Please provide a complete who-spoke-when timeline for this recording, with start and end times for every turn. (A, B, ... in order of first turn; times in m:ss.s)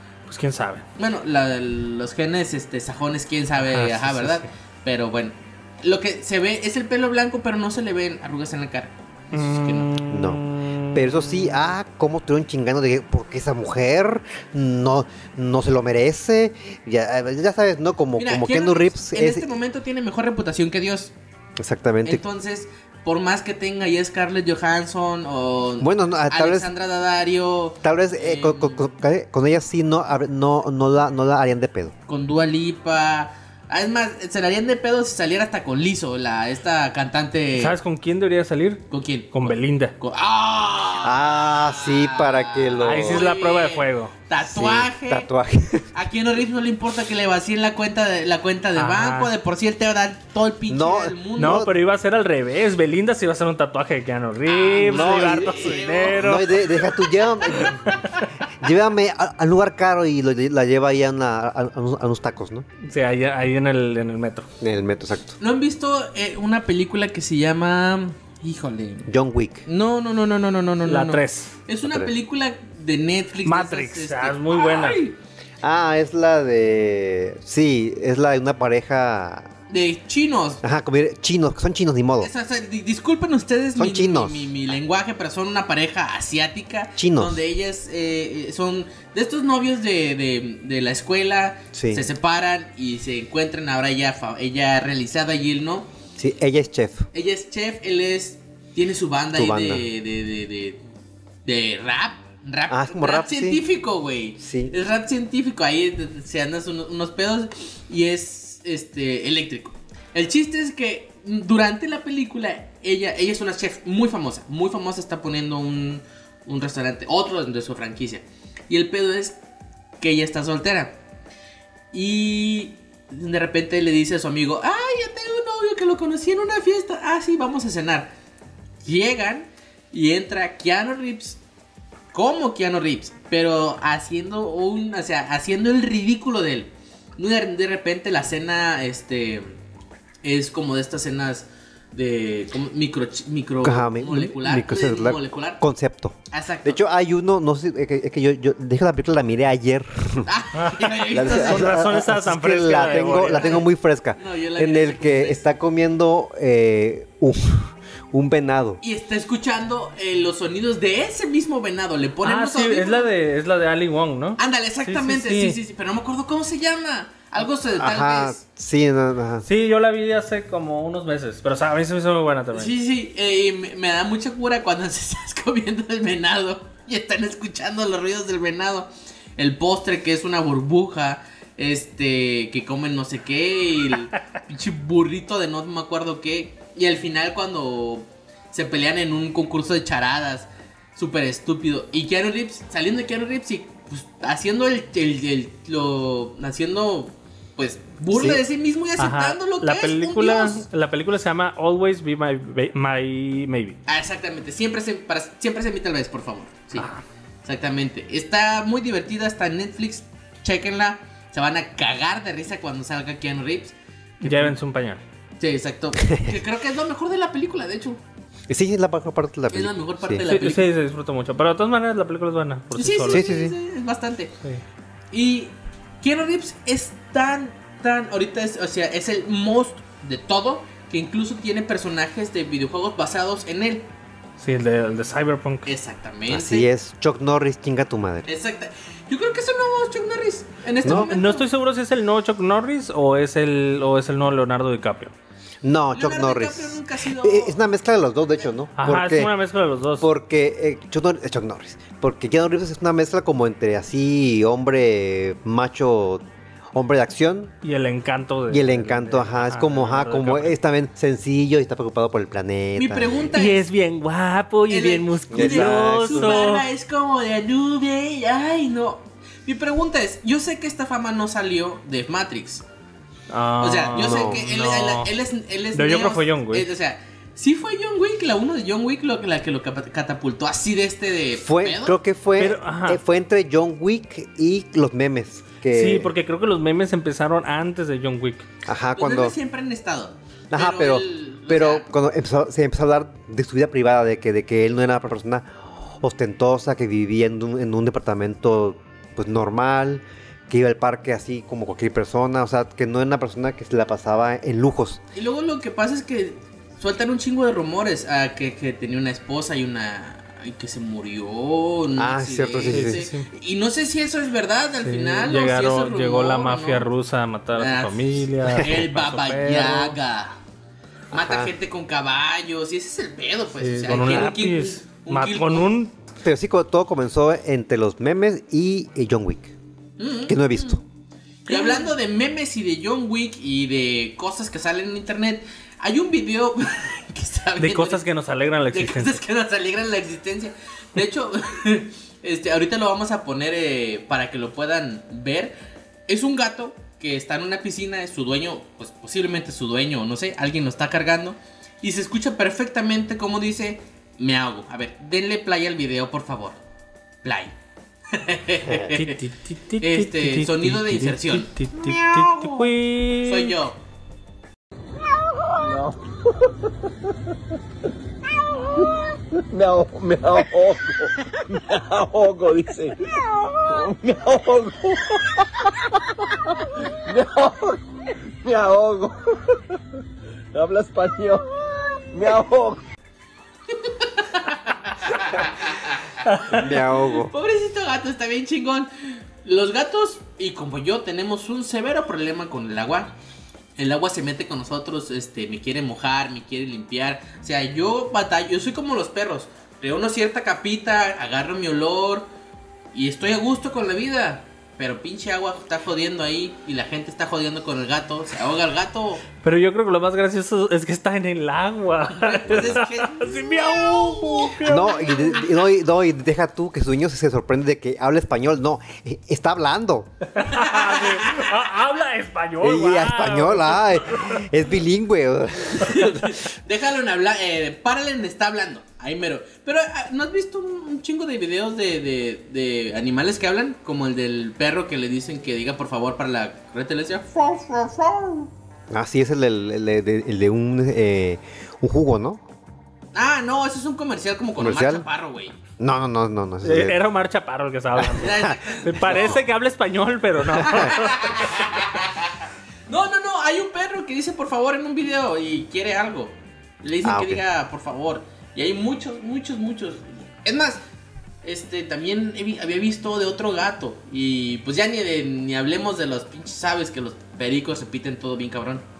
0:00.3-0:00.8 A
0:01.0-0:09.9 B
0:03.6-0:04.5 A
0:09.3-0:11.7 A
0:10.1-0:19.5 C
0:18.2-0:21.1 B
0:21.6-0:22.2 C
0:22.0-0:28.9 B
0:25.8-0:26.7 C
0:27.8-0:31.9 C
0:32.1-0:37.8 B
0:37.6-0:39.9 A
0:38.9-0:45.3 B
0:41.0-0:43.2 C
0:42.8-0:44.1 A
0:44.4-0:45.9 C
0:45.9-0:51.6 B
0:48.8-0:49.3 A
0:50.7-0:51.7 C
0:51.4-0:56.6 A
0:54.4-0:58.0 B
0:54.7-0:58.0 C
0:58.6-1:02.7 C
1:02.8-1:04.5 A
1:04.6-1:05.4 C
1:05.4-1:09.1 B
1:09.1-1:09.6 C
1:09.6-1:15.2 B
1:10.8-1:11.6 A
1:11.8-1:12.1 C
1:13.4-1:15.0 A
1:15.6-1:19.5 C
1:19.7-1:20.6 B
1:20.6-1:22.3 C
1:22.2-1:35.9 B
1:23.8-1:24.6 C
1:27.0-1:27.4 C
1:31.7-1:32.1 C
1:36.2-1:37.1 C
1:37.1-1:40.8 B
1:39.4-1:39.8 C
1:41.4-1:59.4 B
1:42.7-1:43.6 C
1:44.4-1:44.7 C
2:00.0-2:01.0 B
2:01.9-2:08.1 B
2:08.8-2:11.4 B
2:12.1-2:19.6 B
2:20.2-2:25.6 B
2:23.6-2:30.3 C
2:26.3-2:26.8 B
2:30.2-2:31.9 B
2:30.6-2:33.6 A
2:31.1-2:38.8 C
2:32.7-2:35.4 B
2:38.8-2:43.1 B
2:42.2-2:45.6 A
2:44.4-2:48.4 B
2:47.8-2:49.5 C
2:49.4-2:52.7 A
2:52.5-3:20.6 B
3:18.1-3:18.4 C
3:19.0-3:23.8 A
3:23.9-3:26.9 B
3:26.8-3:27.0 A
3:27.4-3:34.6 B
3:34.2-3:35.0 A
3:35.4-3:38.0 B
3:36.1-3:36.3 C
3:38.5-3:40.2 C
3:39.5-3:40.7 B
3:40.2-3:43.2 A
3:42.7-3:44.4 B
3:43.1-3:43.6 C
3:45.1-3:53.9 B
3:54.4-3:55.7 A
3:55.6-3:56.7 B
3:56.3-3:58.3 C
3:58.2-4:01.5 B
4:00.8-4:01.1 C
4:00.8-4:05.1 A
4:05.6-4:09.3 C
4:05.9-4:07.6 B
4:08.8-4:10.1 A
4:10.0-4:17.5 C
4:17.6-4:20.6 A
4:18.5-4:23.4 C
4:22.8-4:23.6 B
4:23.4-4:26.6 A
4:24.7-4:32.6 B
4:25.3-4:26.4 C
4:33.3-4:35.1 A
4:33.6-4:42.0 B
4:33.9-4:34.4 C
4:35.7-4:36.7 A
4:41.4-4:46.1 C
4:42.4-4:43.0 A
4:45.7-4:48.4 A
4:48.6-4:49.4 C
4:49.0-4:51.9 B
4:50.5-5:05.0 C
5:05.1-5:16.9 B
5:12.0-5:13.1 C
5:12.7-5:13.2 A
5:14.8-5:20.0 A
5:17.6-5:20.4 B
5:21.1-5:25.7 B
5:21.1-5:21.5 C
5:23.6-5:25.9 A
5:26.2-5:29.5 C
5:30.0-5:30.8 B
5:30.2-5:30.8 C
5:31.5-5:38.0 B
5:31.5-5:31.9 A
5:37.6-5:39.2 A
5:38.7-5:45.5 B
5:46.1-5:56.6 B
5:57.2-5:57.5 B
5:58.1-5:59.2 B
5:58.7-5:58.9 C
5:58.9-6:03.6 A
5:59.8-6:02.7 B
6:03.2-6:03.8 B
6:05.6-6:07.1 D
6:08.7-6:15.9 D
6:17.0-6:19.8 D
6:20.5-6:21.5 D
6:22.1-6:22.8 D
6:23.7-6:33.1 B
6:26.5-6:27.3 C
6:33.8-6:42.3 B
6:42.9-6:49.2 B
6:49.4-6:55.4 A
6:52.1-6:55.4 B
6:54.6-7:00.1 C
7:00.3-7:04.4 A
7:00.4-7:01.5 B
7:02.6-7:06.4 C
7:05.6-7:18.5 B
7:18.9-7:22.4 C
7:23.1-7:25.6 B
7:24.6-7:25.1 C
7:25.8-7:27.0 C
7:26.6-7:31.4 A
7:28.0-7:29.4 C
7:28.2-7:29.4 B
7:30.5-7:30.9 C
7:30.6-7:32.4 B
7:32.9-7:40.8 B
7:37.0-7:37.4 C
7:41.4-7:48.8 B